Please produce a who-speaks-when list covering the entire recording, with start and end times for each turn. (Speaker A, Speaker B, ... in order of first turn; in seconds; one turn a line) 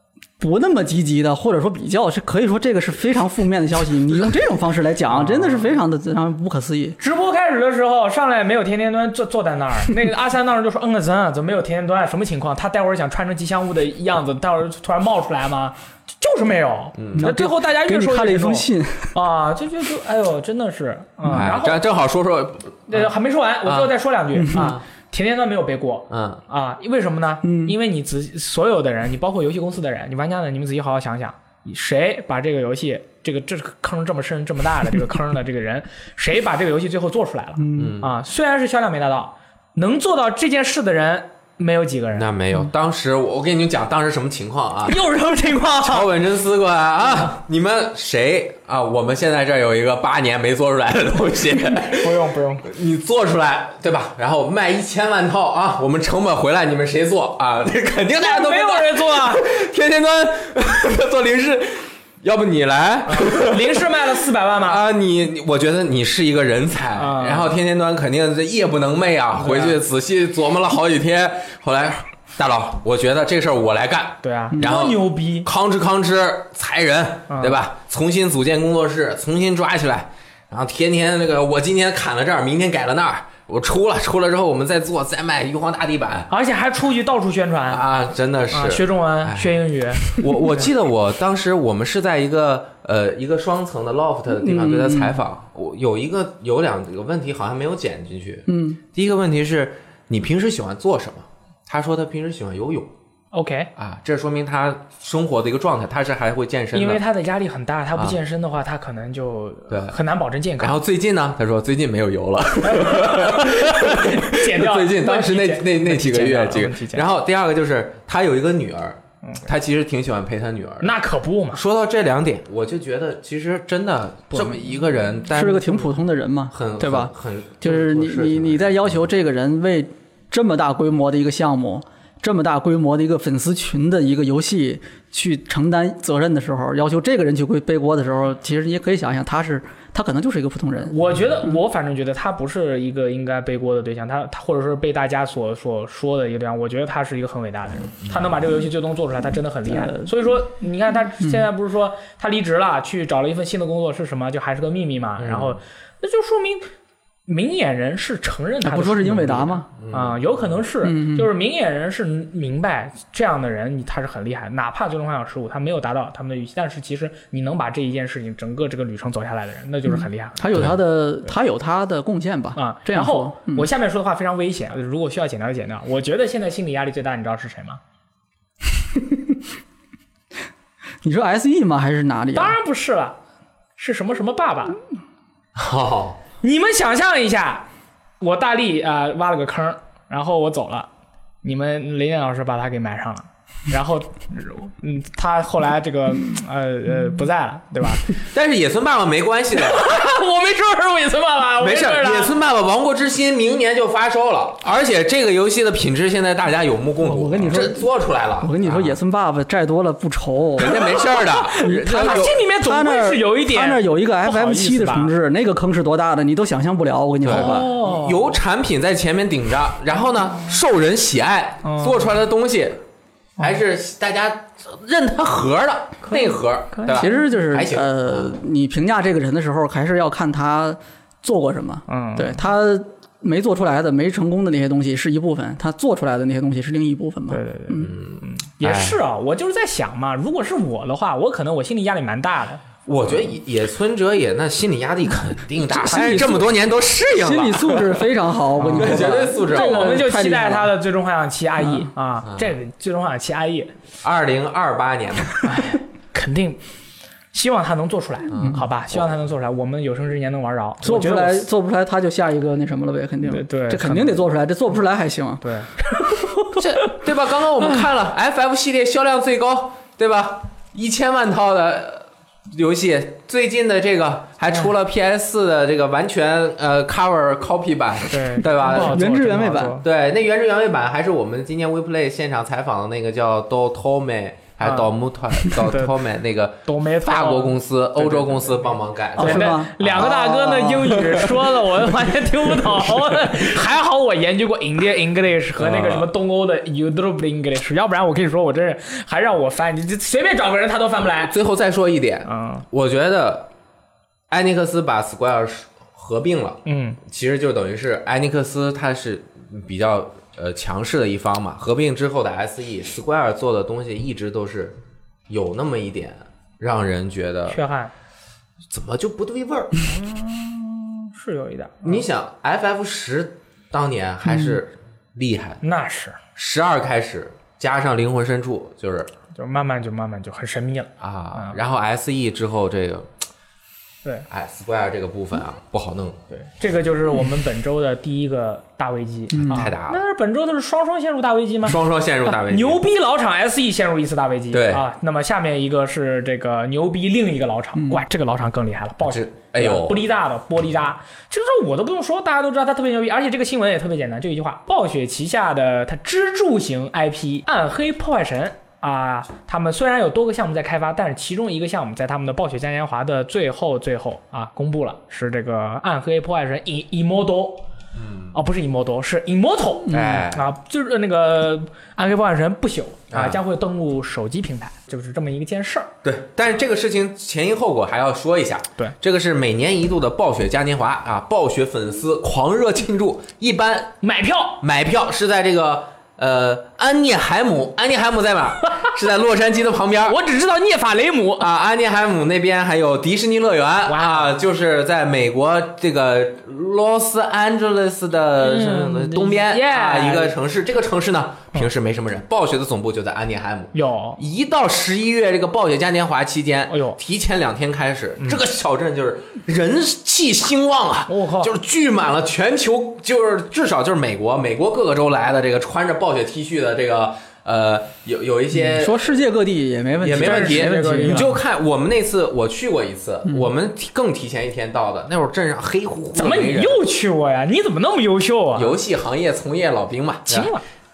Speaker A: 0.4-7.0
Speaker B: 5.1-5.7
Speaker B: 7.0-21.8
Speaker C: 17.0-17.3
Speaker A: 17.1-19.1
Speaker C: 21.3-23.1
Speaker B: 22.9-42.3
Speaker C: 23.6-23.9
Speaker A: 24.4-24.7
Speaker C: 24.5-24.8
Speaker C: 26.1-26.4
Speaker A: 27.4-27.7
Speaker A: 37.6-38.0
Speaker C: 37.7-38.2
Speaker C: 42.1-45.0
Speaker B: 44.9-46.1
Speaker C: 45.8-86.3
Speaker B: 51.8-52.7
Speaker B: 58.2-59.5
Speaker B: 63.1-64.8
Speaker B: 67.0-67.5
Speaker B: 69.4-69.8
Speaker B: 74.2-75.5
Speaker B: 77.3-77.6
Speaker B: 86.3-87.8
Speaker C: 87.7-102.9
Speaker B: 88.5-90.7
Speaker A: 94.3-95.2
Speaker A: 98.5-98.8
Speaker B: 103.3-103.7
Speaker C: 103.8-107.0
Speaker B: 106.7-110.8
Speaker C: 109.7-110.0
Speaker C: 110.6-120.9
Speaker B: 112.6-117.0
Speaker B: 120.8-121.6
Speaker C: 121.5-125.9
Speaker A: 125.3-140.9
Speaker C: 126.5-129.0
Speaker B: 140.8-156.7
Speaker A: 149.7-150.1
Speaker A: 151.2-151.4
Speaker C: 155.2-155.6
Speaker B: 157.3-170.6
Speaker A: 158.6-159.7
Speaker C: 159.7-160.4
Speaker A: 160.8-161.3
Speaker A: 169.9-173.7
Speaker B: 172.6-177.8
Speaker A: 178.9-179.3
Speaker A: 181.0-182.6
Speaker B: 182.3-183.2
Speaker B: 183.8-184.8
Speaker C: 185.6-186.2
Speaker B: 186.4-187.6
Speaker B: 188.2-190.9
Speaker B: 191.4-198.2
Speaker C: 198.3-199.9
Speaker B: 199.5-202.3
Speaker C: 201.6-209.0
Speaker A: 207.0-210.8
Speaker C: 210.6-212.4
Speaker B: 210.6-215.1
Speaker A: 211.6-217.7
Speaker C: 217.2-222.8
Speaker B: 217.3-218.3
Speaker B: 221.6-222.1
Speaker C: 223.4-228.3
Speaker B: 226.1-227.2
Speaker A: 226.9-237.9
Speaker B: 231.9-232.4
Speaker B: 237.3-242.6
Speaker C: 237.8-239.0
Speaker C: 242.8-248.0
Speaker A: 245.7-246.6
Speaker A: 247.1-250.7
Speaker B: 248.6-253.7
Speaker C: 248.7-250.0
Speaker A: 251.6-251.9
Speaker C: 252.2-252.5
Speaker C: 254.0-255.5
Speaker B: 255.4-256.6
Speaker B: 257.3-261.4
Speaker C: 258.3-259.1
Speaker A: 260.8-265.4
Speaker B: 263.2-264.2
Speaker B: 265.4-267.0
Speaker C: 266.6-279.0
Speaker B: 278.1-279.9
Speaker A: 278.6-279.8
Speaker C: 279.8-290.2
Speaker B: 284.6-284.9
Speaker B: 285.4-285.9
Speaker B: 286.6-301.3
Speaker A: 289.2-291.3
Speaker C: 295.6-296.1
Speaker C: 301.2-303.5
Speaker B: 302.2-302.6
Speaker C: 304.3-314.8
Speaker B: 306.6-307.0
Speaker C: 315.3-317.6
Speaker B: 317.5-317.9
Speaker C: 318.7-319.8
Speaker B: 319.8-322.0
Speaker C: 321.8-325.6
Speaker B: 325.6-326.2
Speaker C: 326.4-329.1
Speaker B: 329.3-331.6
Speaker C: 331.0-333.1
Speaker C: 334.3-336.2
Speaker B: 336.3-367.6
Speaker A: 339.3-339.6
Speaker C: 339.4-340.0
Speaker C: 341.6-342.8
Speaker C: 344.5-344.9
Speaker A: 347.8-348.0
Speaker C: 349.0-350.0
Speaker C: 367.9-368.4
Speaker B: 368.3-375.9
Speaker C: 369.9-370.4
Speaker A: 369.9-370.2
Speaker C: 373.1-373.4
Speaker C: 376.0-383.9
Speaker B: 384.0-384.6
Speaker C: 384.6-390.2
Speaker B: 388.6-388.9
Speaker B: 390.1-391.5
Speaker C: 391.4-419.1
Speaker B: 393.9-394.3
Speaker B: 398.4-400.3
Speaker B: 403.7-404.2
Speaker B: 406.7-407.0
Speaker B: 411.1-411.5
Speaker A: 418.5-421.3
Speaker C: 420.0-426.8
Speaker B: 420.1-421.4
Speaker A: 423.2-423.5
Speaker B: 426.1-428.8
Speaker C: 428.5-430.5
Speaker B: 430.3-430.6